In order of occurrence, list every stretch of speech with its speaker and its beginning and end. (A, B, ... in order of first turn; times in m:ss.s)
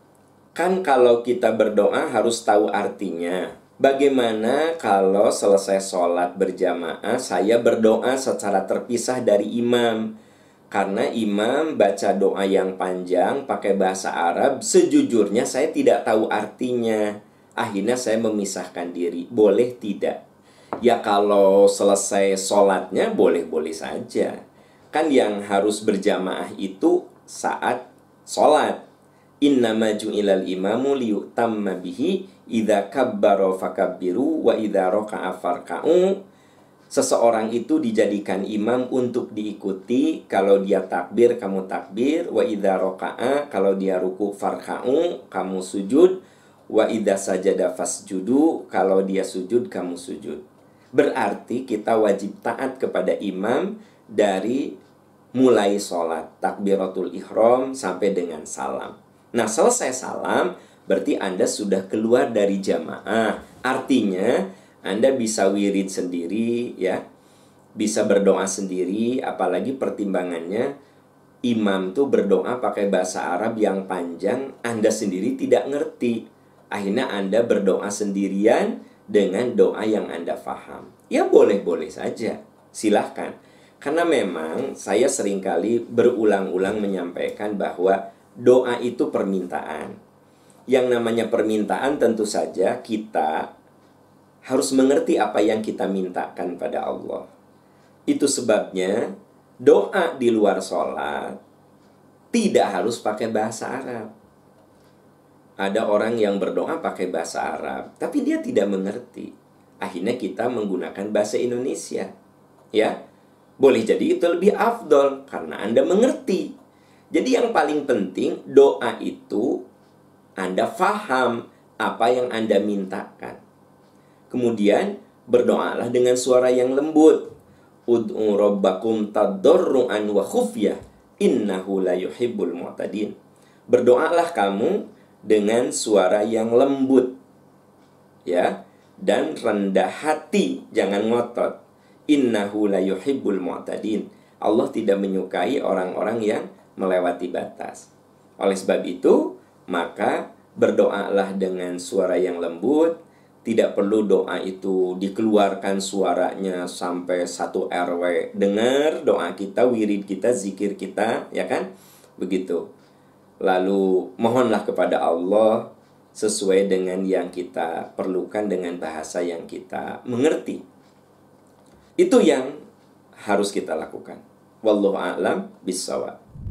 0:00.6-0:10.1 A
0:10.7-0:17.1 A
0:17.6-0:20.2 A
0:20.8-0:24.4 A
0:24.9-0:28.8 A
0:29.4-0:36.2 A
0:36.9-0:46.2 A
0:46.7-0:50.4 A
0:51.0-0:54.7 A
0:55.3-1:07.0 A
1:07.8-1:10.7 A
1:11.4-1:29.9 A
1:30.7-1:33.5 A
1:34.5-1:37.3 A
1:38.1-1:39.1 A
1:39.6-1:41.4 A
1:42.3-1:44.1 A
1:45.6-1:49.3 A
1:49.8-1:52.1 A
1:53.6-1:56.5 A
1:57.1-1:59.6 A
2:00.4-2:03.4 A
2:04.3-2:07.3 A
2:07.9-2:13.1 A
2:13.7-2:17.1 A
2:18.2-2:21.6 A
2:22.1-2:27.9 A
2:28.4-2:41.7 A
2:42.2-2:42.6 A
2:43.4-2:50.6 A
2:52.0-2:52.6 A
2:53.2-2:56.1 A